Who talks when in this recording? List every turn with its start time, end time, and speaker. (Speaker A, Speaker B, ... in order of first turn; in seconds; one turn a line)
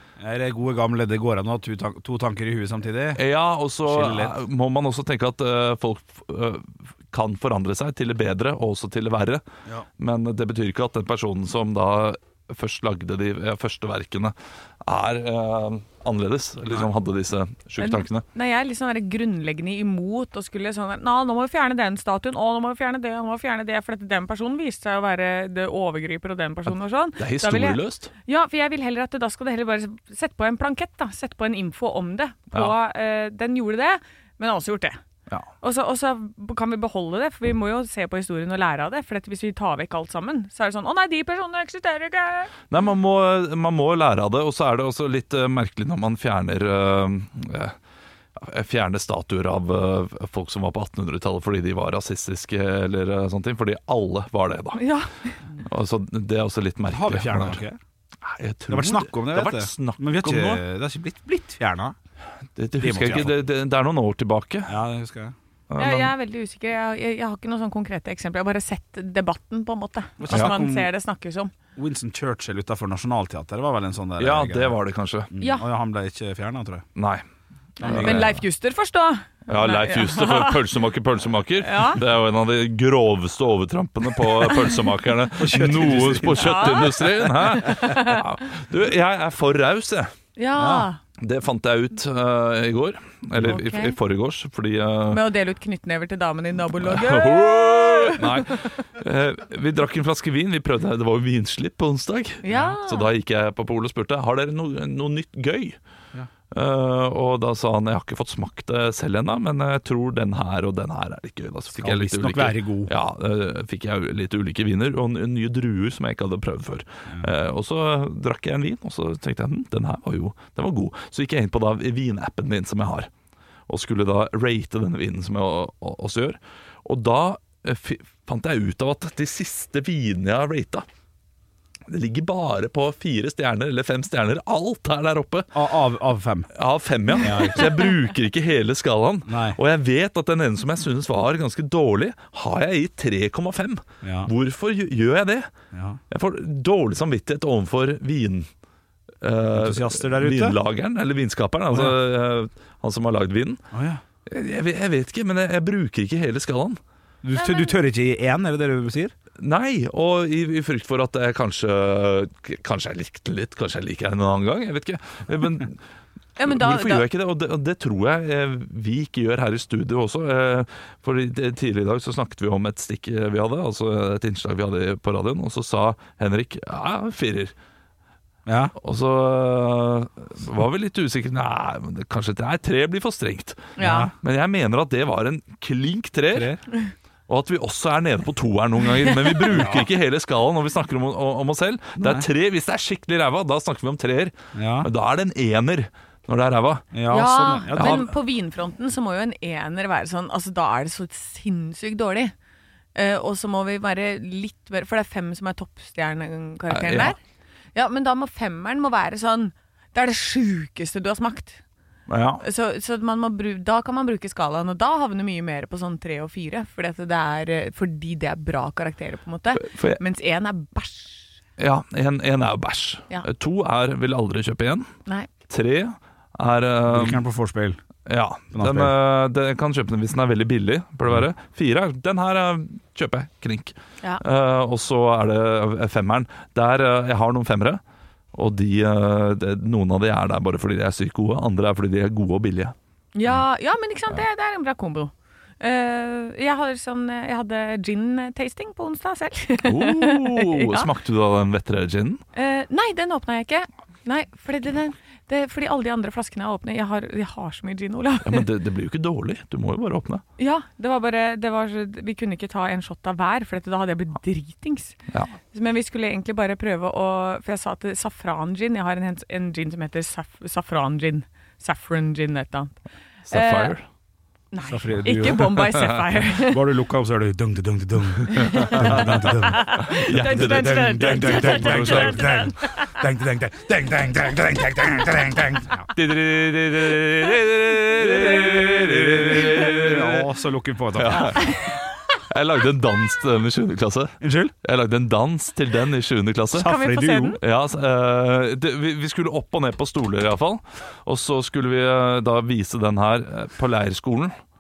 Speaker A: 0.2-3.2
Speaker B: 3.1-9.4
Speaker A: 3.9-4.3
Speaker B: 10.0-18.2
Speaker C: 17.8-35.0
Speaker B: 27.2-28.1
Speaker C: 35.6-42.5
Speaker B: 42.7-47.7
Speaker B: 48.4-54.9
Speaker C: 54.8-55.4
Speaker B: 55.6-57.6
Speaker A: 56.9-57.8
Speaker B: 58.2-60.6
Speaker A: 58.7-61.9
Speaker B: 62.5-64.8
Speaker A: 62.8-63.4
Speaker A: 64.7-65.3
Speaker B: 65.7-66.1
Speaker C: 65.8-71.5
Speaker A: 70.2-70.9
Speaker A: 71.8-74.7
Speaker B: 74.2-75.3
Speaker A: 75.3-76.8
Speaker C: 75.4-75.6
Speaker B: 77.0-77.2
Speaker A: 77.8-78.3
Speaker C: 77.8-80.6
Speaker B: 77.8-78.4
Speaker B: 79.5-90.1
Speaker C: 81.6-82.0
Speaker A: 85.4-87.1
Speaker C: 86.4-88.2
Speaker C: 90.4-91.0
Speaker A: 90.6-90.9
Speaker B: 91.2-95.2
Speaker C: 93.4-94.0
Speaker C: 95.1-98.7
Speaker B: 96.8-105.8
Speaker C: 102.4-103.1
Speaker B: 106.5-123.1
Speaker A: 111.8-112.9
Speaker B: 123.7-130.8
Speaker B: 131.9-135.6
Speaker A: 135.5-136.5
Speaker B: 136.5-145.5
Speaker A: 137.2-137.8
Speaker A: 139.3-139.6
Speaker A: 144.0-144.3
Speaker A: 145.7-146.0
Speaker B: 146.1-148.5
Speaker B: 149.2-153.6
Speaker A: 149.5-150.6
Speaker A: 151.7-152.0
Speaker A: 153.7-154.0
Speaker B: 154.2-156.8
Speaker A: 157.2-159.1
Speaker C: 157.3-157.8
Speaker B: 159.4-165.8
Speaker C: 166.4-167.0
Speaker B: 166.4-177.5
Speaker A: 178.4-178.7
Speaker B: 178.8-186.5
Speaker C: 183.8-184.1
Speaker A: 183.8-184.1
Speaker A: 186.3-186.6
Speaker B: 187.3-196.9
Speaker C: 189.1-189.6
Speaker A: 189.5-189.9
Speaker A: 192.0-192.2
Speaker A: 194.5-194.9
Speaker A: 196.9-198.1
Speaker C: 197.1-202.3
Speaker B: 197.8-198.1
Speaker C: 202.9-207.2
Speaker B: 206.7-207.1
Speaker C: 207.7-211.6
Speaker B: 212.1-212.4
Speaker C: 212.4-221.2
Speaker B: 219.5-220.0
Speaker B: 221.6-224.9
Speaker B: 225.5-227.2
Speaker A: 226.8-227.8
Speaker B: 228.1-237.8
Speaker A: 228.5-228.9
Speaker B: 238.3-242.7
Speaker C: 243.1-250.9
Speaker B: 249.6-252.2
Speaker C: 252.3-258.4
Speaker B: 258.2-260.2
Speaker C: 260.4-265.0
Speaker C: 265.5-272.8
Speaker B: 273.3-273.8
Speaker C: 273.3-273.7
Speaker C: 274.5-276.6
Speaker A: 274.6-275.6
Speaker B: 275.2-276.1
Speaker A: 276.4-291.4
Speaker B: 278.3-282.4
Speaker C: 278.3-282.9
Speaker B: 287.3-290.3
Speaker B: 290.9-296.7
Speaker C: 291.3-291.8
Speaker A: 294.2-294.5
Speaker A: 296.5-297.4
Speaker C: 296.6-297.4
Speaker B: 297.4-304.4